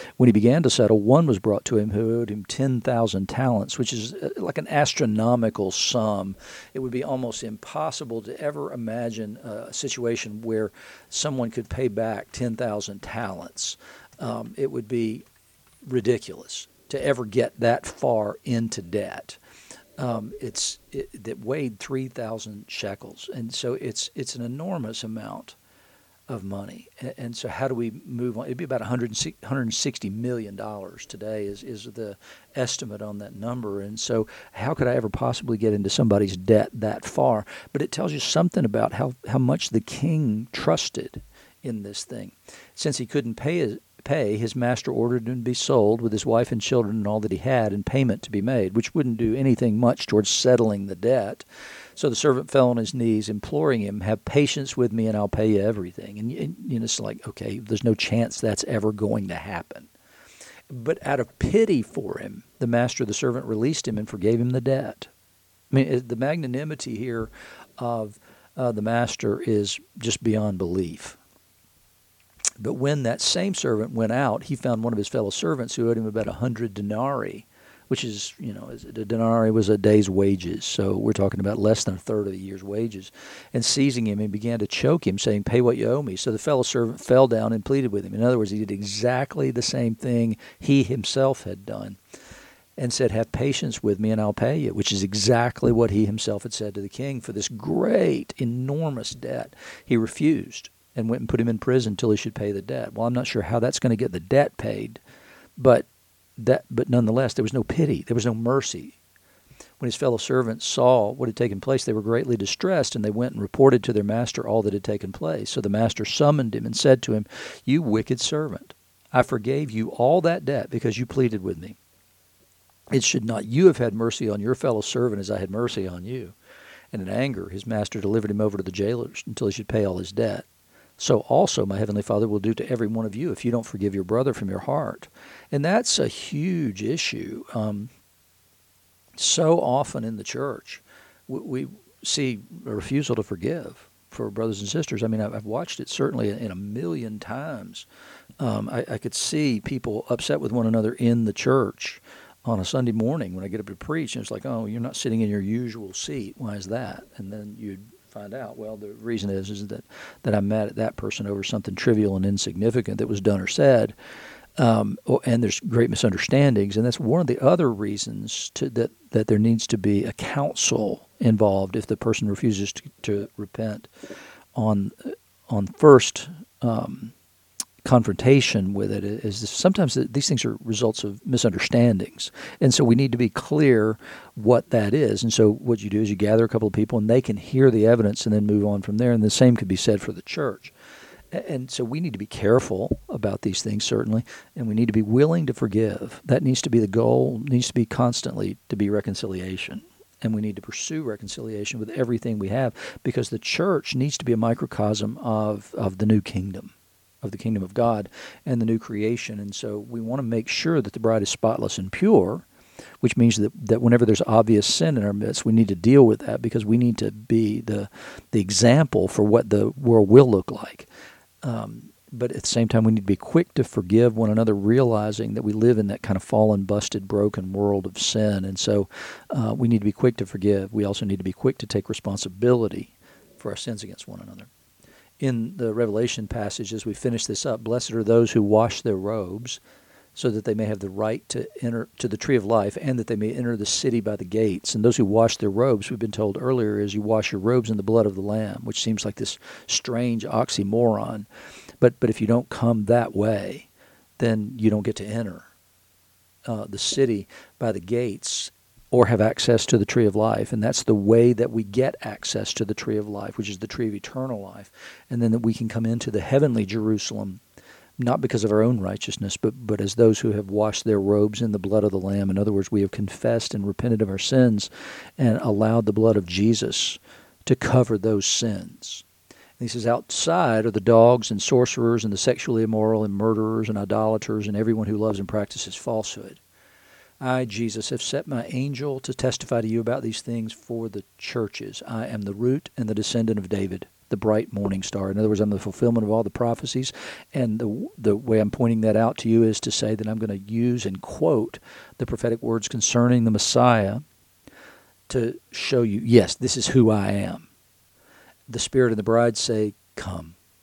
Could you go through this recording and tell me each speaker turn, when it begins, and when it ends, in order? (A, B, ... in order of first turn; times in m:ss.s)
0:00.2-0:15.2 A
0:15.8-0:19.4 A
0:20.0-0:25.6 A
0:26.3-0:59.9 A
1:00.7-1:05.1 A
1:05.7-1:11.2 A
1:12.6-1:32.0 A
1:32.8-1:45.0 A
1:45.6-1:45.9 A
1:46.4-1:49.0 A
1:49.8-2:01.8 A
2:02.9-2:06.4 A
2:06.9-2:10.5 A
2:11.0-2:17.9 A
2:19.2-2:27.8 A
2:28.4-2:43.9 A
2:44.6-2:53.9 A
2:54.5-2:57.1 A
2:57.8-3:10.7 A
3:11.3-3:32.4 A
3:33.0-3:40.9 A
3:41.4-3:54.5 A
3:55.2-3:59.6 A
4:00.1-4:11.3 A
4:11.8-4:13.7 A
4:14.2-4:15.5 A
4:16.4-4:27.4 A
4:28.0-4:39.0 A
4:39.6-4:46.4 A
4:47.2-5:04.0 A
5:05.1-5:07.5 A
5:08.5-5:10.4 A